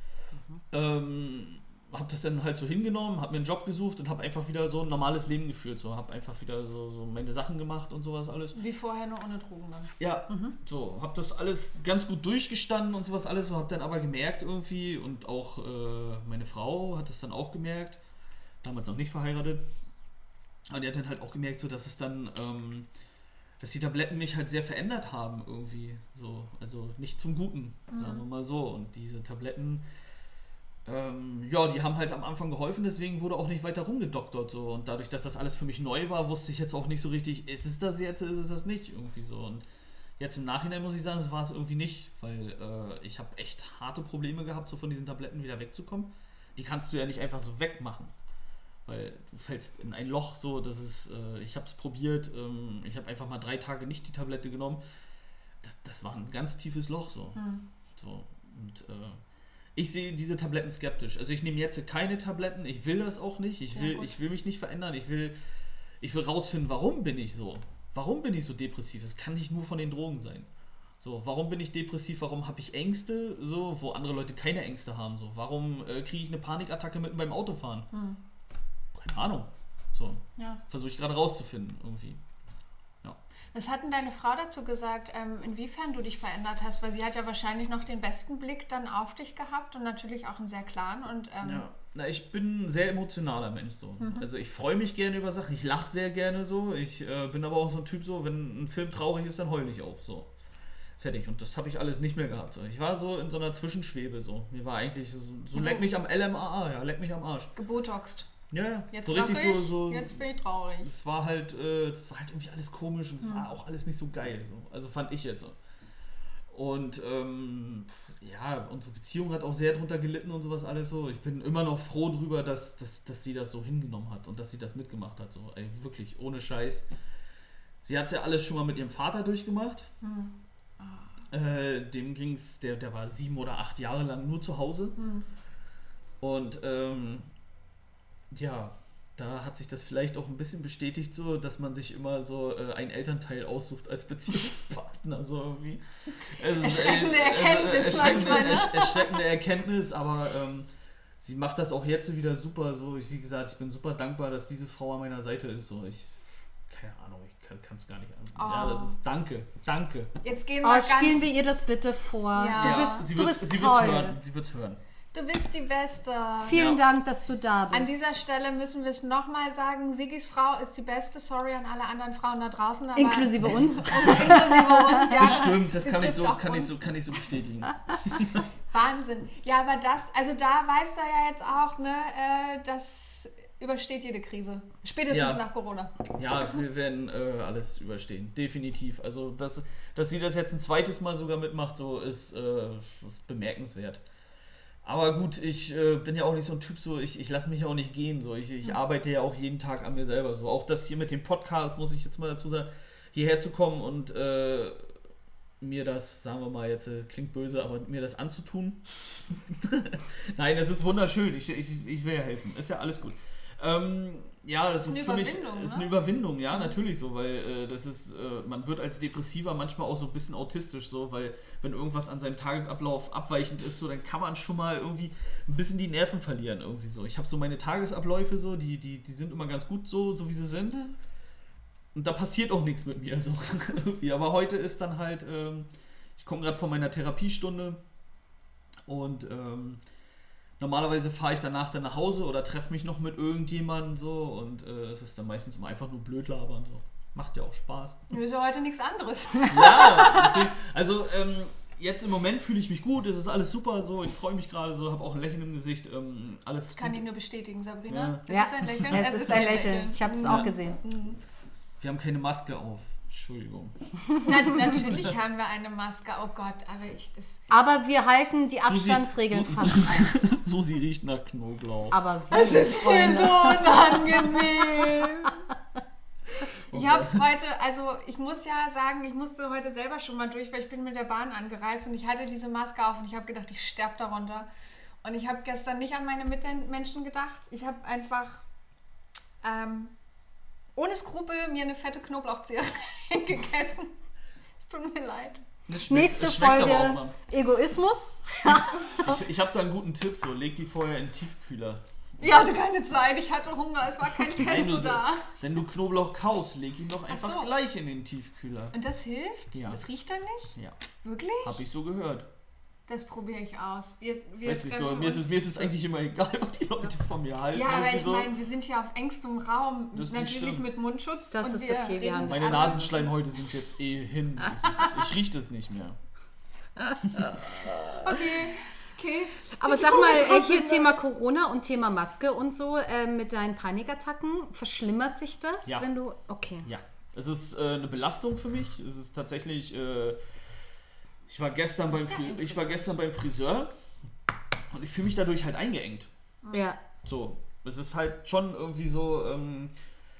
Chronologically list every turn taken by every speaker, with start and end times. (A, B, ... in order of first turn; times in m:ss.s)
0:00.7-0:08.6 A
0:08.6-0:10.6 B
0:10.0-0:18.0 A
0:18.6-0:19.7 A
0:20.7-0:22.9 A
0:23.6-0:29.9 A
0:27.9-0:28.2 B
0:30.8-0:39.6 A
0:40.2-0:48.1 A
0:48.8-0:54.8 A
0:55.6-0:57.4 A
0:57.4-0:57.7 B
0:57.9-0:59.2 A
0:59.7-1:05.4 A
1:03.7-1:04.1 B
1:06.0-1:10.5 A
1:11.0-1:17.9 A
1:17.9-1:18.2 B
1:19.0-1:22.2 A
1:20.4-1:20.6 B
1:23.5-1:31.6 B
1:31.4-1:40.3 A
1:34.0-1:34.2 B
1:41.0-1:47.5 A
1:45.5-1:45.9 B
1:47.6-1:48.3 B
1:48.5-1:50.2 A
1:48.9-1:50.9 B
1:50.8-1:55.6 A
1:53.2-1:53.5 B
1:56.5-2:06.9 A
2:07.8-2:09.9 A
2:10.0-2:11.1 B
2:11.3-2:15.0 A
2:15.0-2:15.3 B
2:16.2-2:17.3 A
2:18.3-2:30.7 A
2:26.6-2:29.2 B
2:31.2-2:40.1 A
2:38.4-2:39.0 B
2:40.2-2:41.3 B
2:40.6-2:44.2 C
2:42.3-2:43.1 B
2:42.6-2:44.8 A
2:45.1-2:46.6 B
2:46.4-2:48.0 C
2:46.5-2:46.8 A
2:47.7-2:56.9 B
2:53.0-2:55.2 C
2:53.4-2:54.4 A
2:55.1-2:58.4 A
2:58.7-3:06.1 B
3:05.1-3:05.4 A
3:06.1-3:14.0 A
3:14.8-3:24.9 A
3:25.6-3:50.9 A
3:34.8-3:35.9 B
3:51.9-3:57.8 A
3:58.9-3:59.8 A
4:00.6-4:08.1 A
4:08.1-4:10.4 B
4:09.5-4:17.0 A
4:16.7-4:21.2 B
4:17.9-4:19.0 A
4:18.3-4:20.8 C
4:20.2-4:20.5 A
4:21.8-4:23.8 A
4:24.2-4:27.4 B
4:24.6-4:25.1 A
4:27.5-4:30.2 C
4:28.6-4:32.0 A
4:31.9-4:35.0 C
4:32.3-4:35.4 B
4:36.7-4:37.2 A
4:36.7-4:44.5 B
4:45.0-4:48.4 B
4:49.4-4:49.9 B
4:50.8-4:53.9 B
4:54.6-4:55.4 B
4:55.7-4:57.2 A
4:55.9-4:59.2 C
4:58.6-5:02.3 A
5:02.2-5:05.4 B
5:04.4-5:08.7 A
5:07.1-5:07.5 B
5:08.7-5:11.6 B
5:09.5-5:09.8 A
5:11.4-5:12.3 A
5:12.9-5:15.7 B
5:14.4-5:18.3 A
5:17.5-5:23.1 B
5:19.9-5:20.7 A
5:21.3-5:23.0 C
5:22.3-5:26.0 A
5:26.8-5:28.4 C
5:27.9-5:31.0 B
5:29.5-5:36.7 C
5:36.6-5:40.2 A
5:41.3-5:43.7 A
5:41.9-5:42.9 B
5:44.7-5:46.1 A
5:46.5-5:46.8 C
5:47.0-5:49.7 A